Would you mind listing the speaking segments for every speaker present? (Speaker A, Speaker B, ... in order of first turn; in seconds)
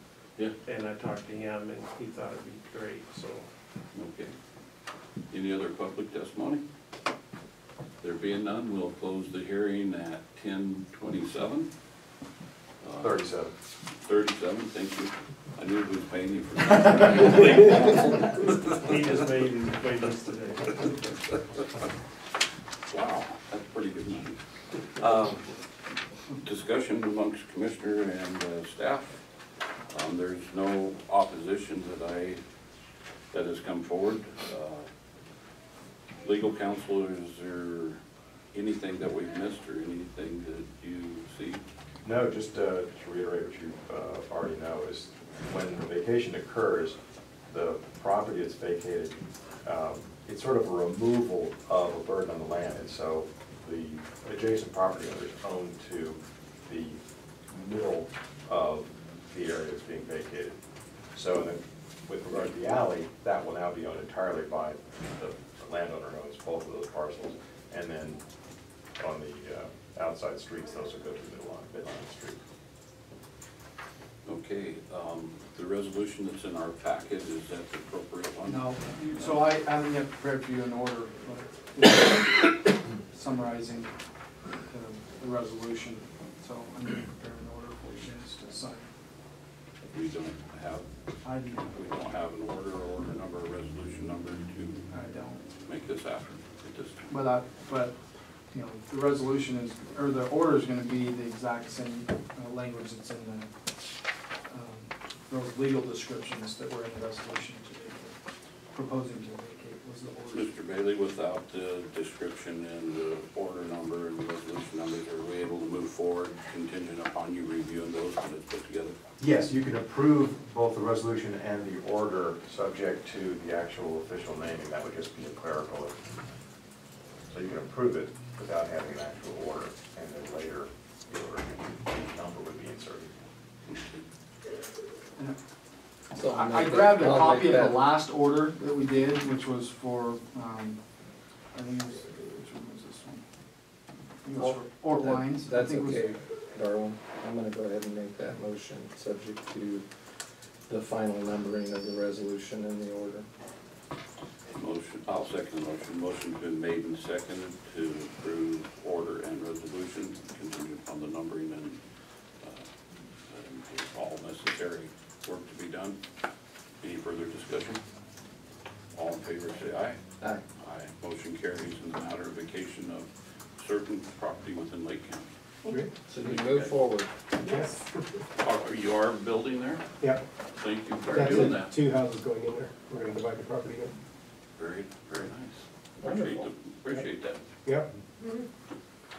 Speaker A: 0.6-3.5, 18.8-20.9
Speaker B: 3.9-4.3, 5.3-6.6, 8.0-11.7, 12.8-13.2, 14.0-18.8, 22.9-24.4, 25.0-25.5, 26.4-29.1, 29.9-32.4, 33.3-34.9, 36.2-38.0, 38.5-41.6, 74.2-79.5, 89.9-90.8, 91.7-94.8, 95.6-97.1, 110.3-118.9, 133.7-134.0, 154.5-161.8, 162.4-162.7, 163.2-166.0, 166.8-167.8, 168.9-170.0, 170.6-175.3, 176.1-176.8, 178.4-179.8, 180.6-181.7, 184.6-187.4
Speaker C: 13.0-13.5, 42.0-47.0, 47.5-60.6, 61.1-68.2, 69.0-72.4, 119.2-126.0, 127.3-133.1
Speaker D: 78.4-83.9, 84.7-88.9, 91.2-91.9, 94.9-95.4, 97.1-97.9, 98.5-103.5, 104.5-108.2, 108.7-110.5, 136.2-140.8, 141.5-143.2, 144.2-146.1
Speaker E: 136.2-137.9, 144.3-149.9, 150.7-153.2, 176.1-177.1, 186.0-186.5
Speaker F: 177.4-177.8, 181.0-183.9